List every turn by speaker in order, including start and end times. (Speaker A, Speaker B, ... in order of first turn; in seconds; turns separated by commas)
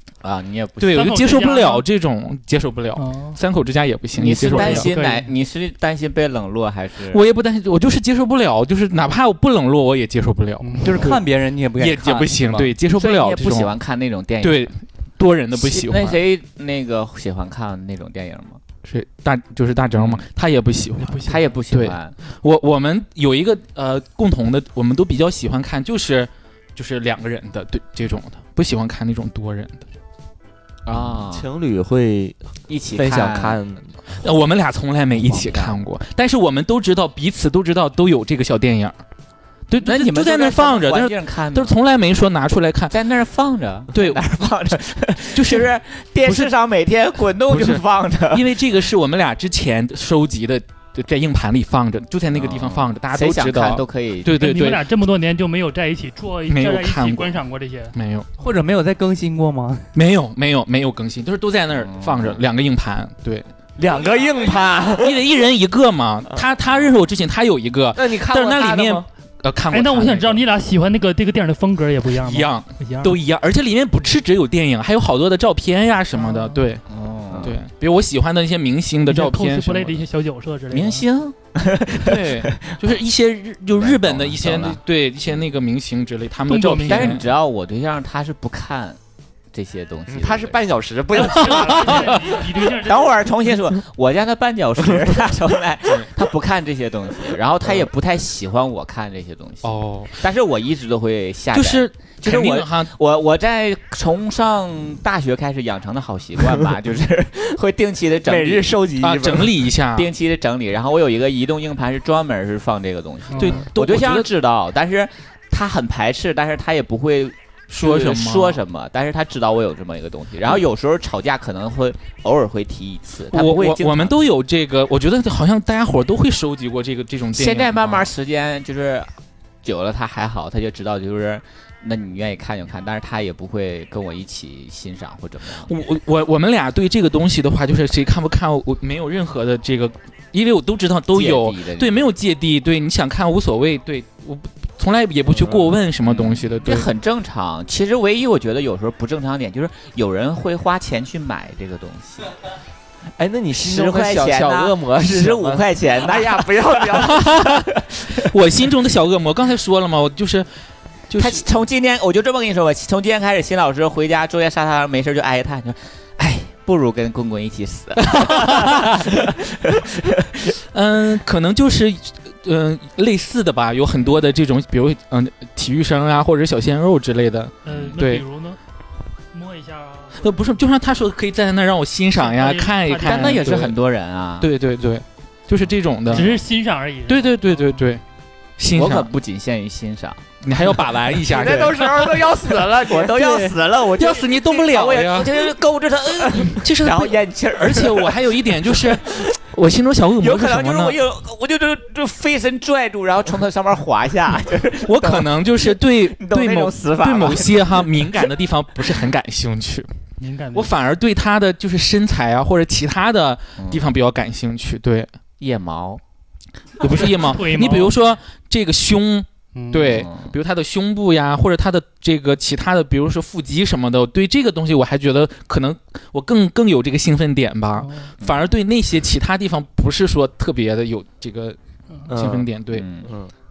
Speaker A: 0.2-1.1, Speaker B: 0.8-4.9, Speaker C: 0.9-1.8, Speaker C: 3.0-3.4, Speaker A: 4.2-7.2, Speaker C: 4.2-5.3, Speaker B: 7.1-11.2, Speaker C: 10.6-11.2, Speaker D: 10.8-12.7, Speaker B: 11.8-13.7, Speaker A: 12.9-14.7, Speaker B: 14.4-16.2, Speaker A: 15.5-18.6, Speaker B: 18.8-29.8, Speaker A: 19.9-20.2, Speaker C: 21.1-21.4, Speaker A: 21.1-22.1, Speaker A: 30.9-31.5, Speaker E: 30.9-32.4, Speaker A: 32.7-33.6, Speaker E: 32.9-33.9, Speaker B: 34.2-39.0, Speaker A: 35.1-35.8, Speaker B: 39.7-42.9, Speaker A: 39.8-41.8, Speaker A: 42.9-48.5, Speaker B: 43.9-44.2, Speaker B: 45.3-45.7, Speaker B: 46.2-46.5, Speaker B: 47.5-54.8, Speaker A: 52.3-54.5, Speaker C: 54.4-57.9, Speaker B: 56.5-57.4, Speaker B: 57.9-58.3, Speaker D: 58.4-59.9, Speaker B: 59.9-63.5, Speaker A: 61.7-62.4, Speaker E: 63.8-65.2, Speaker B: 65.0-70.4, Speaker E: 67.9-69.0, Speaker C: 69.7-73.2, Speaker B: 72.2-80.0, Speaker C: 76.2-76.6, Speaker A: 76.9-77.6, Speaker C: 79.1-81.0, Speaker A: 80.7-82.7, Speaker B: 82.0-87.3, Speaker A: 83.7-85.4, Speaker C: 86.5-87.2, Speaker A: 86.9-89.0, Speaker A: 89.5-90.6, Speaker E: 90.1-92.1, Speaker C: 91.1-93.3, Speaker B: 91.6-92.0, Speaker A: 92.8-108.7, Speaker B: 99.6-100.2, Speaker B: 101.5-102.9, Speaker E: 108.2-109.5, Speaker B: 109.0-110.1, Speaker A: 109.9-124.2, Speaker C: 113.3-113.7, Speaker B: 113.3-114.3, Speaker B: 117.7-118.6, Speaker B: 123.3-128.1, Speaker A: 127.3-129.1, Speaker A: 129.6-135.7, Speaker B: 135.6-146.9, Speaker A: 141.1-142.0, Speaker E: 145.3-145.8, Speaker A: 146.0-152.3, Speaker E: 153.2-157.3, Speaker A: 153.5-158.2, Speaker B: 157.0-157.6, Speaker B: 158.2-160.5, Speaker B: 161.1-161.4, Speaker A: 161.2-170.5, Speaker B: 168.1-168.8, Speaker B: 170.7-178.2, Speaker C: 177.6-178.6, Speaker A: 177.7-177.9, Speaker C: 179.3-180.4, Speaker B: 180.2-183.8, Speaker C: 182.1-183.6, Speaker A: 183.0-184.5, Speaker B: 184.4-186.3, Speaker C: 186.1-187.9, Speaker B: 187.1-188.0, Speaker B: 188.6-189.1, Speaker A: 188.7-199.2, Speaker B: 190.4-195.6, Speaker B: 196.2-201.0, Speaker A: 200.2-208.2, Speaker B: 204.8-209.9, Speaker C: 210.2-210.7, Speaker B: 210.5-215.1, Speaker A: 213.6-213.8, Speaker A: 215.4-216.0, Speaker B: 216.8-231.6, Speaker C: 216.8-218.0, Speaker C: 219.5-220.1, Speaker A: 219.9-220.3, Speaker C: 227.8-228.1, Speaker A: 228.2-228.5, Speaker E: 232.1-232.5, Speaker B: 232.1-232.8, Speaker A: 232.7-233.1, Speaker E: 233.0-233.3